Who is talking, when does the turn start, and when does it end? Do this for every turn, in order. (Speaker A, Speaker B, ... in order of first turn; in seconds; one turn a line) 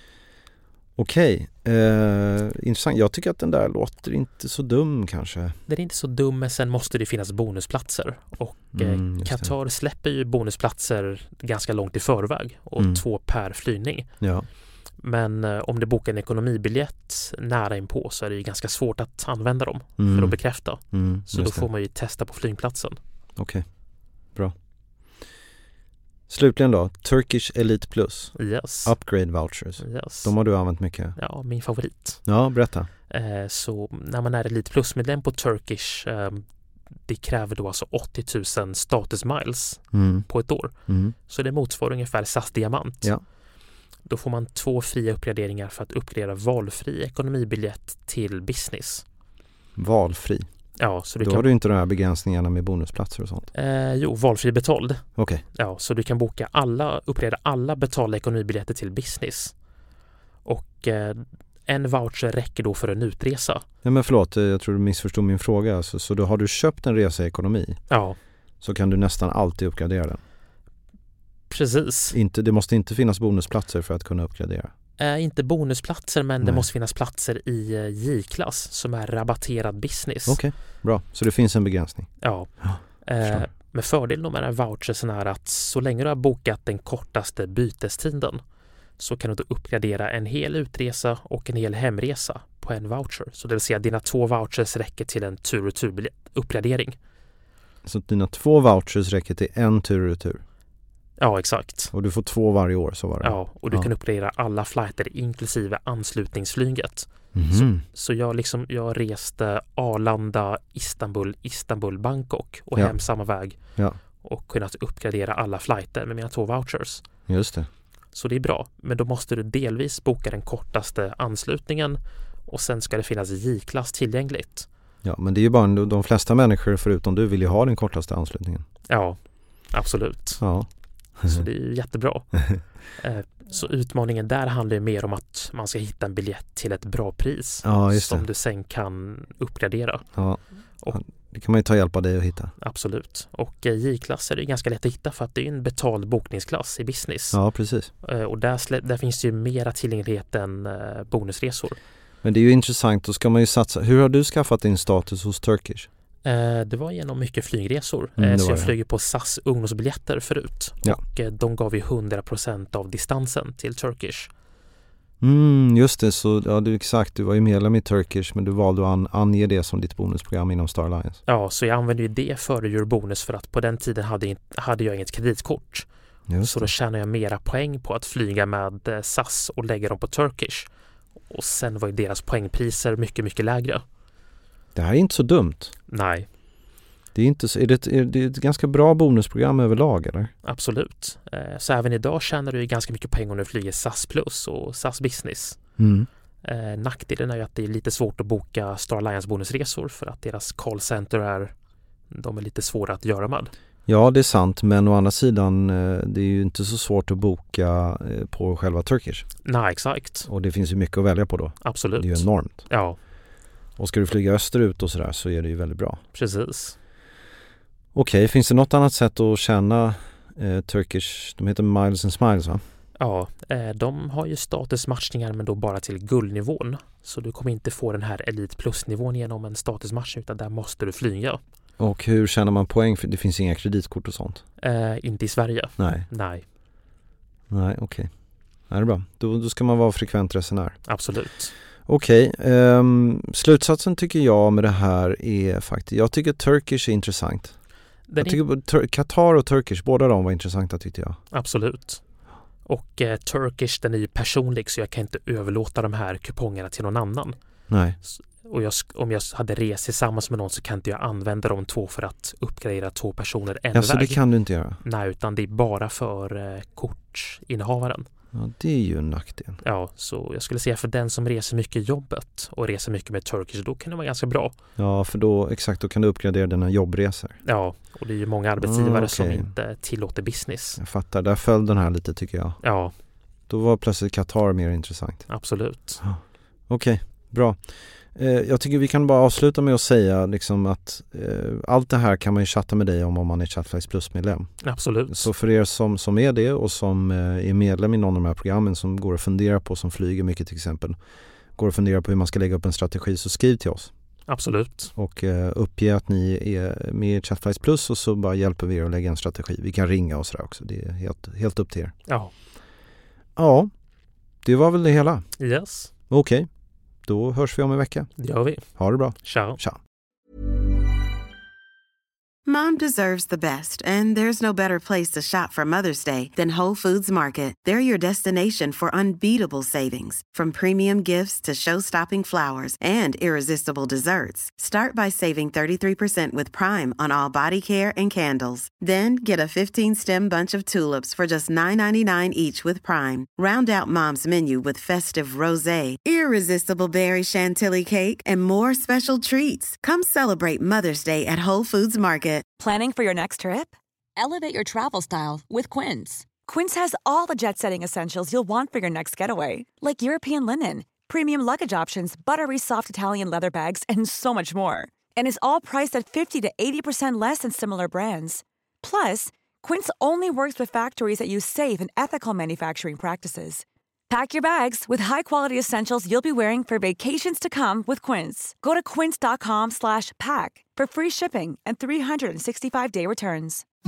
Speaker A: 1.0-5.6
Speaker B: 5.7-14.1
Speaker A: 8.7-9.5
Speaker A: 12.8-13.0
Speaker A: 14.2-14.5
Speaker B: 15.0-23.0
Speaker A: 20.0-21.7
Speaker A: 23.4-23.6
Speaker A: 26.3-31.2
Speaker B: 28.4-28.9
Speaker B: 29.8-30.3
Speaker B: 31.2-32.2
Speaker A: 32.3-32.9
Speaker B: 33.1-36.5
Speaker B: 37.1-40.7
Speaker A: 39.9-40.3
Speaker A: 40.9-41.1
Speaker B: 41.3-43.1
Speaker B: 44.1-49.0
Speaker A: 49.8-50.5
Speaker B: 50.8-51.5
Speaker A: 51.2-53.5
Speaker B: 53.5-55.0
Speaker A: 55.2-55.4
Speaker B: 55.5-59.5
Speaker B: 60.5-63.6
Speaker A: 63.8-67.8
Speaker B: 67.9-68.2
Speaker A: 68.6-70.2
Speaker B: 71.5-72.2
Speaker A: 72.1-74.7
Speaker B: 75.0-80.4
Speaker A: 76.4-76.7
Speaker A: 80.3-83.5
Speaker B: 82.2-88.4
Speaker B: 89.0-97.0
Speaker A: 97.8-100.4
Speaker B: 101.2-101.9
Speaker A: 101.9-103.9
Speaker B: 103.2-113.6
Speaker A: 107.3-107.8
Speaker B: 114.2-117.0
Speaker A: 117.3-117.7
Speaker B: 118.1-124.7
Speaker A: 125.0-128.7
Speaker B: 128.9-129.2
Speaker B: 129.7-130.4
Speaker A: 130.4-130.7
Speaker A: 131.2-131.4
Speaker B: 131.3-132.4
Speaker B: 133.0-140.1
Speaker A: 137.6-138.3
Speaker A: 140.2-142.5
Speaker B: 142.6-147.4
Speaker A: 147.3-147.9
Speaker B: 148.0-151.8
Speaker A: 152.2-155.9
Speaker B: 156.2-164.3
Speaker A: 158.2-158.7
Speaker A: 165.2-171.2
Speaker B: 171.3-175.9
Speaker A: 176.3-176.7
Speaker B: 176.4-180.7
Speaker B: 181.3-183.8
Speaker A: 184.8-185.7
Speaker B: 185.9-186.3
Speaker A: 187.2-190.3
Speaker B: 190.4-195.6
Speaker A: 195.8-196.1
Speaker B: 196.4-201.5
Speaker B: 202.1-203.5
Speaker A: 203.9-209.3
Speaker B: 209.4-210.3
Speaker A: 210.3-212.7
Speaker B: 211.6-213.0
Speaker A: 213.8-216.0
Speaker B: 216.1-216.8
Speaker A: 217.9-222.6
Speaker B: 223.0-231.4
Speaker A: 231.8-234.4
Speaker B: 234.6-236.4
Speaker A: 235.8-236.1
Speaker A: 237.5-238.1
Speaker A: 238.7-240.8
Speaker B: 240.9-241.5
Speaker A: 241.9-247.5
Speaker B: 248.1-248.4
Speaker A: 248.2-251.2
Speaker B: 251.3-252.0
Speaker B: 252.7-257.4
Speaker A: 257.7-258.0
Speaker B: 258.0-264.2
Speaker A: 263.7-264.8
Speaker B: 264.8-268.1
Speaker A: 268.3-269.6
Speaker B: 269.6-274.5
Speaker A: 274.8-277.4
Speaker B: 277.4-280.8
Speaker A: 278.6-279.5
Speaker A: 280.8-282.6
Speaker B: 282.6-282.9
Speaker A: 283.5-285.3
Speaker B: 285.3-286.0
Speaker A: 286.0-287.6
Speaker A: 288.1-294.5
Speaker B: 294.6-295.3
Speaker A: 295.1-301.0
Speaker A: 301.6-303.9
Speaker B: 304.3-304.9
Speaker A: 305.0-311.9
Speaker A: 313.4-313.7
Speaker A: 314.4-315.2
Speaker B: 315.4-315.9
Speaker A: 316.1-316.5
Speaker A: 317.1-318.1
Speaker B: 318.2-318.7
Speaker A: 318.8-319.8
Speaker B: 319.2-319.6
Speaker C: 322.5-352.4
Speaker D: 352.6-383.6